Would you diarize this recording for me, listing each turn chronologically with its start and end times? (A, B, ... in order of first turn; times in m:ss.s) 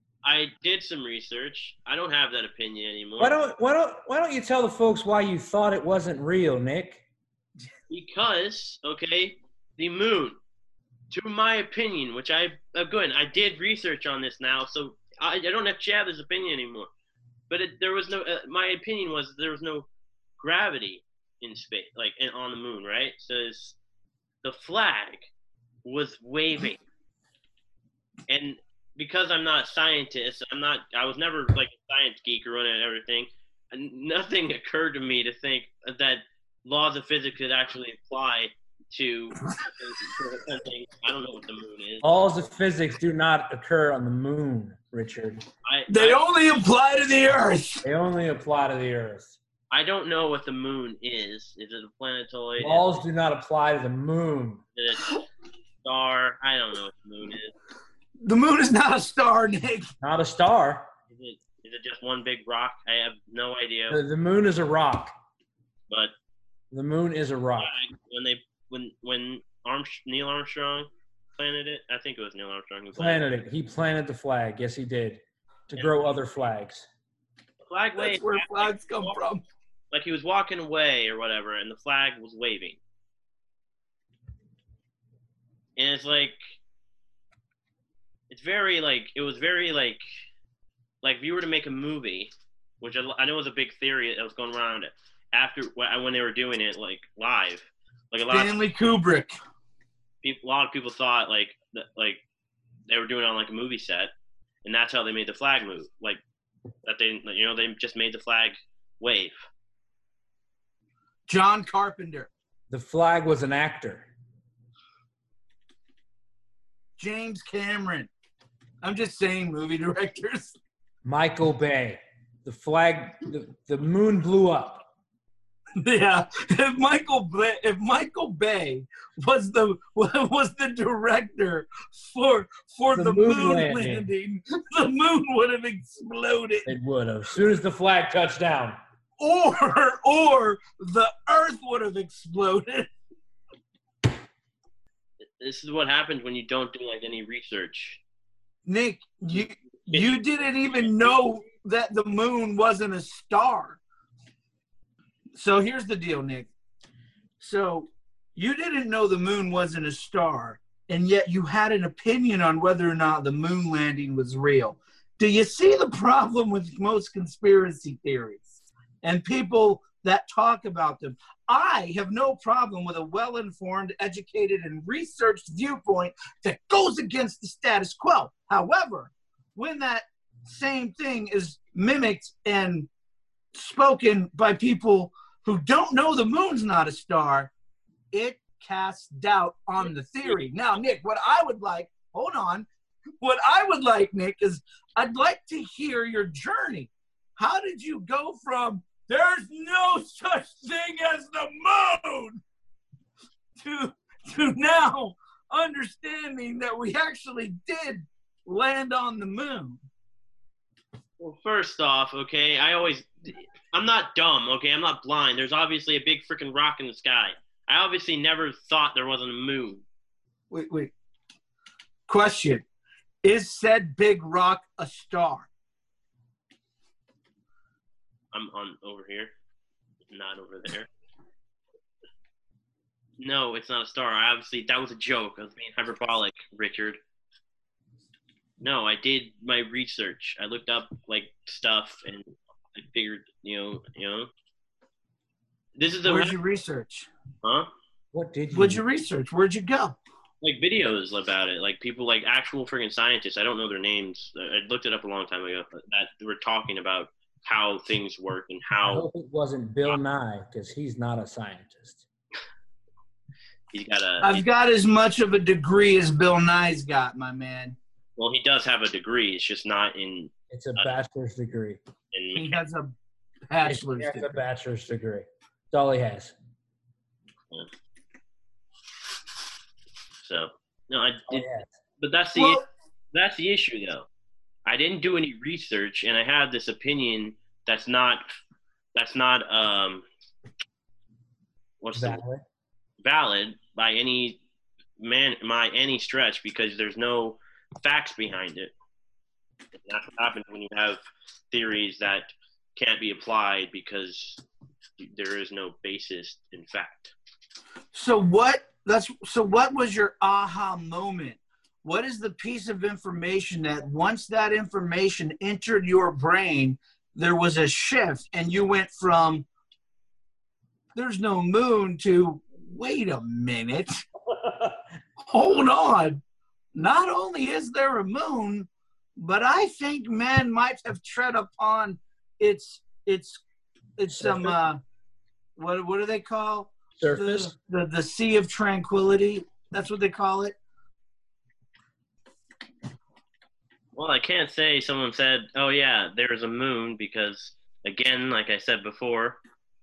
0:00.2-0:03.4 A
0:03.2-0:07.0 B
0:07.9-0:10.4 A
0:11.1-0:16.9 A
0:17.5-0:19.9 A
0:20.4-0:23.8 A
0:24.4-0:25.3 A
0:25.8-0:26.8 A
0:28.3-0:42.2 A
0:42.0-0:45.4 B
0:45.6-0:46.2 A
0:45.9-0:47.8 C
0:47.8-0:49.4 B
0:49.7-0:53.0 A
0:52.6-0:54.6 B
0:54.8-0:55.2 A
0:55.8-0:57.5 A
0:58.2-0:59.9 C
1:00.0-1:00.9 B
1:01.1-1:04.0 A
1:03.9-1:05.1 B
1:06.7-1:07.7 B
1:07.6-1:13.3 A
1:12.9-1:16.8 B
1:17.6-1:19.2 A
1:18.0-1:19.4 C
1:19.9-1:22.8 A
1:25.8-1:26.4 A
1:28.3-1:30.0 A
1:31.0-1:38.6 A
1:38.3-1:39.3 C
1:40.2-1:42.2 A
1:42.9-1:44.1 A
1:44.6-1:46.2 A
1:46.8-1:49.4 A
1:51.3-1:52.3 C
1:52.7-1:54.1 B
1:57.0-1:58.1 C
1:58.8-2:00.6 C
2:01.0-2:04.8 B
2:05.8-2:16.7 C
2:12.9-2:14.1 B
2:16.6-2:18.8 B
2:19.2-2:22.9 C
2:25.4-2:28.0 A
2:28.6-2:33.8 C
2:29.9-2:31.2 A
2:35.4-2:36.5 C
2:37.4-3:02.9 C
3:03.5-3:07.5 C
3:08.1-3:12.7 C
3:13.2-3:22.4 C
3:23.6-3:29.8 C
3:31.2-3:39.8 A
3:40.5-3:40.9 C
3:42.1-3:42.6 C
3:43.2-3:45.5 C
3:48.3-3:49.3 A
3:50.1-3:50.9 A
3:53.2-3:57.0 A
3:58.6-4:04.3 A
4:05.8-4:06.4 A
4:06.0-4:07.1 C
4:07.4-4:07.7 A
4:08.1-4:08.8 B
4:08.5-4:10.0 C
4:10.4-4:19.0 A
4:18.8-4:22.0 B
4:23.7-4:24.4 A
4:24.2-4:27.8 C
4:28.2-4:30.9 A
4:30.5-4:31.8 B
4:32.1-4:32.6 A
4:32.3-4:32.9 C
4:33.5-4:34.4 C
4:33.6-4:36.3 B
4:40.2-4:41.4 A
4:41.3-4:41.7 B
4:42.0-4:42.6 A
4:42.4-4:42.6 C
4:43.1-4:44.1 A
4:44.6-4:48.2 A
4:48.9-4:50.0 A
4:51.8-4:52.2 A
4:51.9-4:52.4 B
4:53.0-4:54.4 A
4:55.0-4:58.7 A
4:59.8-5:01.0 A
5:01.5-5:04.4 A
5:05.0-5:07.1 A
5:07.9-5:19.4 C
5:20.9-5:24.0 C
5:24.3-5:24.8 B
5:25.3-5:26.2 C
5:26.7-5:33.4 C
5:34.0-5:34.8 C
5:34.1-5:34.6 B
5:35.6-5:40.6 C
5:37.0-5:37.5 B
5:43.9-5:49.4 A